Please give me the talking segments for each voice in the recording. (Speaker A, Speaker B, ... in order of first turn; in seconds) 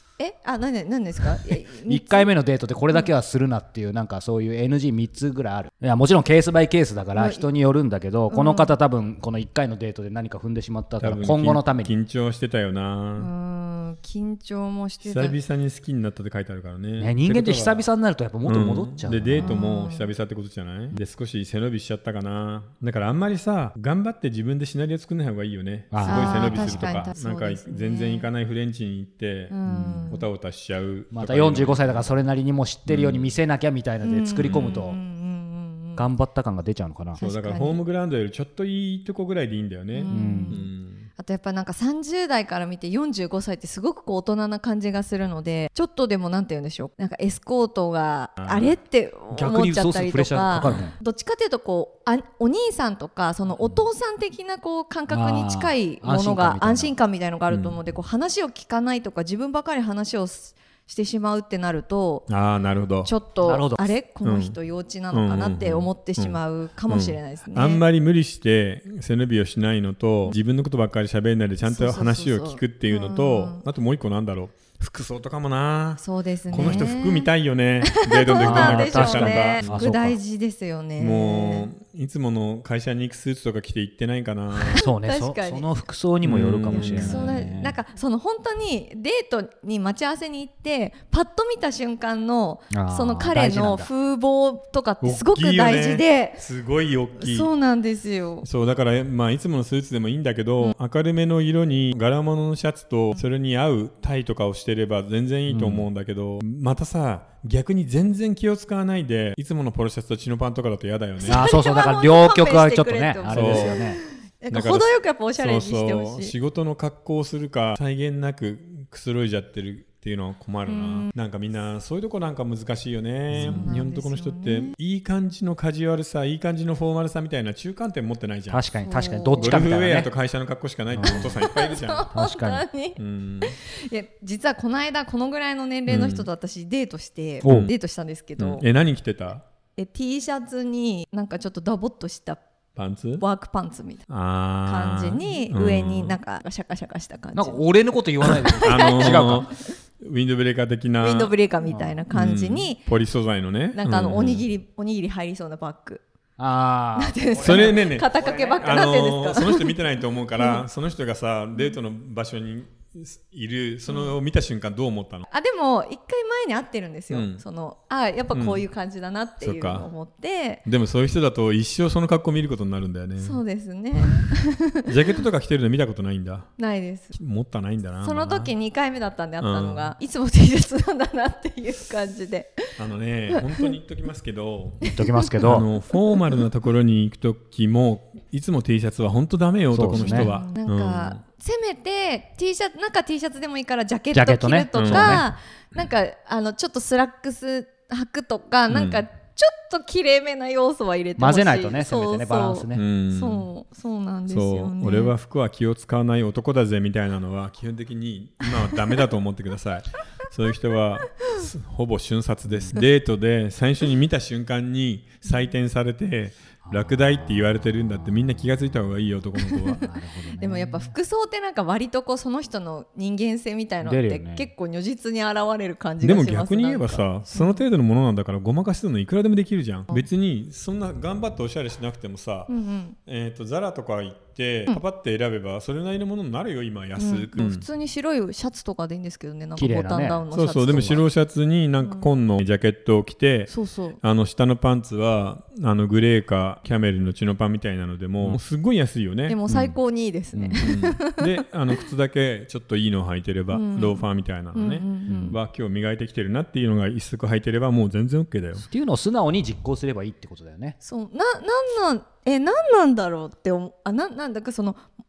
Speaker A: 0.2-2.3, 7.2-7.5, 8.3-8.8, 13.2-15.4, 19.3-20.1, 26.0-28.3, 29.5-30.3, 34.0-36.1, 37.2-37.8, 39.9-62.3, 63.0-67.8, 71.6-73.7, 76.0-77.3, 77.9-81.7, 84.6-85.7, 86.7-96.4, 97.2-98.5, 111.2-116.3, 120.7-121.1, 123.4-124.8, 128.8-129.6, 131.0-138.7, 139.8-142.4, 143.2-144.1, 144.6-147.6, 148.2-149.6, 151.0-152.8, 153.7-156.0, 157.0-159.8, 160.3-160.7, 163.9-164.2, 165.3-170.6, 173.2-174.9, 176.6-177.2, 178.0-182.6, 184.9-185.3, 189.9-205.1, 219.5-227.7, 232.5-233.0, 237.0-241.1, 241.8-242.1, 243.5-244.0, 249.3-251.3, 253.5-255.4, 260.8-264.8
Speaker B: 1.8-11.9, 17.0-19.6, 25.9-26.9, 29.7-30.1, 31.1-35.0, 36.0-37.2, 40.1-40.6, 49.3-51.0, 55.1-57.0, 63.4-63.9, 76.5-76.9, 78.4-80.2, 84.8-87.8, 92.7-93.9, 105.5-105.9, 111.3-114.0, 123.3-123.8, 128.5-130.1, 130.9-131.4, 132.1-132.7, 137.4-137.7, 147.3-149.5, 151.6-152.0, 156.4-158.9, 184.9-185.7, 189.7-190.3, 194.1-195.3, 201.2-202.8, 212.5-212.8, 216.7-217.5, 219.8-220.9, 223.8-224.5, 239.6-240.2, 250.3-250.7, 255.1-255.4, 258.6-260.8
Speaker C: 11.0-13.3, 15.0-17.9, 18.4-32.2, 32.9-33.4, 34.4-34.7, 37.2-41.1, 48.4-48.7, 57.5-57.8, 62.3-63.1, 64.2-64.6, 65.1-79.9, 81.0-84.8, 86.2-87.4, 95.0-97.5, 98.4-111.5, 113.3-113.8, 114.5-128.6, 129.4-132.1, 133.0-133.5, 135.9-136.3, 137.4-137.7, 138.4-139.4, 142.8-143.2, 144.1-146.2, 148.6-151.3, 152.1-154.5, 157.4-158.1, 158.6-165.3, 167.1-167.4, 168.3-168.6, 169.4-169.9, 170.6-173.4, 174.9-176.5, 177.1-178.5, 179.4-179.9, 182.8-184.8, 185.4-191.2, 194.8-195.3, 198.7-199.0, 202.7-203.5, 204.3-219.8, 226.0-232.5, 233.1-237.7, 240.3-249.8, 250.6-258.6